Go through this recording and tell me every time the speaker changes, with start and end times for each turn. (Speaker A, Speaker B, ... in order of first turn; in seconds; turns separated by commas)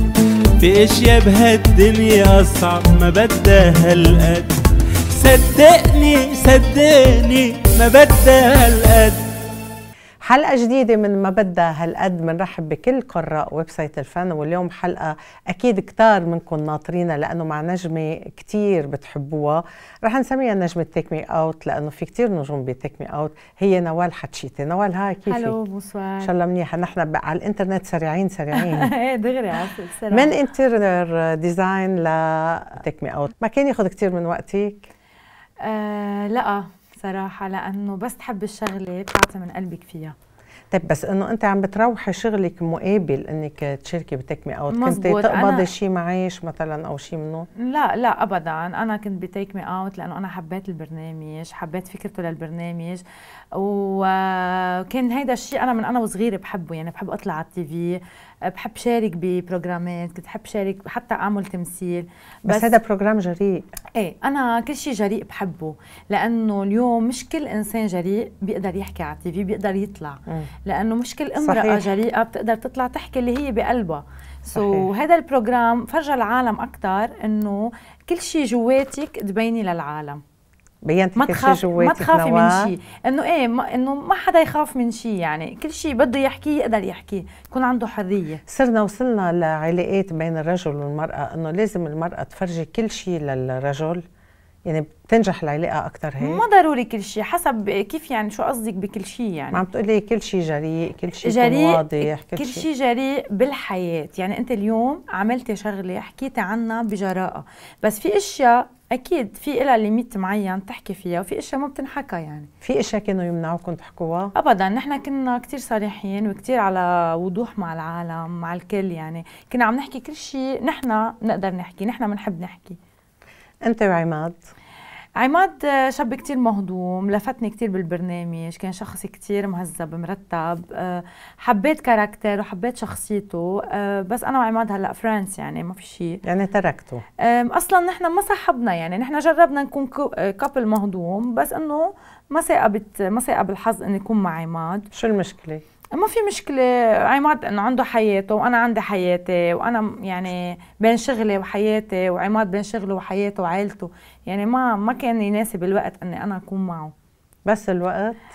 Speaker A: 0.6-4.5, Speaker A: 5.1-9.3, Speaker B: 10.2-25.5, Speaker C: 25.3-26.3, Speaker B: 26.2-28.9, Speaker C: 28.6-30.3, Speaker B: 30.1-34.9, Speaker C: 35.6-40.1, Speaker B: 40.7-47.5, Speaker C: 44.7-45.7, Speaker C: 47.6-53.0, Speaker C: 53.5-62.7, Speaker B: 62.4-63.7, Speaker C: 64.0-80.2, Speaker B: 71.4-71.9, Speaker B: 74.5-74.9, Speaker B: 80.8-82.7, Speaker C: 81.2-88.4, Speaker B: 88.5-94.0, Speaker B: 94.7-96.4, Speaker C: 96.2-99.6, Speaker B: 99.5-102.7, Speaker C: 101.2-112.5, Speaker B: 112.6-114.3, Speaker C: 114.3-122.8, Speaker B: 123.6-124.4, Speaker C: 125.2-136.2, Speaker B: 136.2-137.0, Speaker C: 137.2-144.9, Speaker B: 144.9-145.6, Speaker C: 145.9-156.9, Speaker B: 157.4-158.2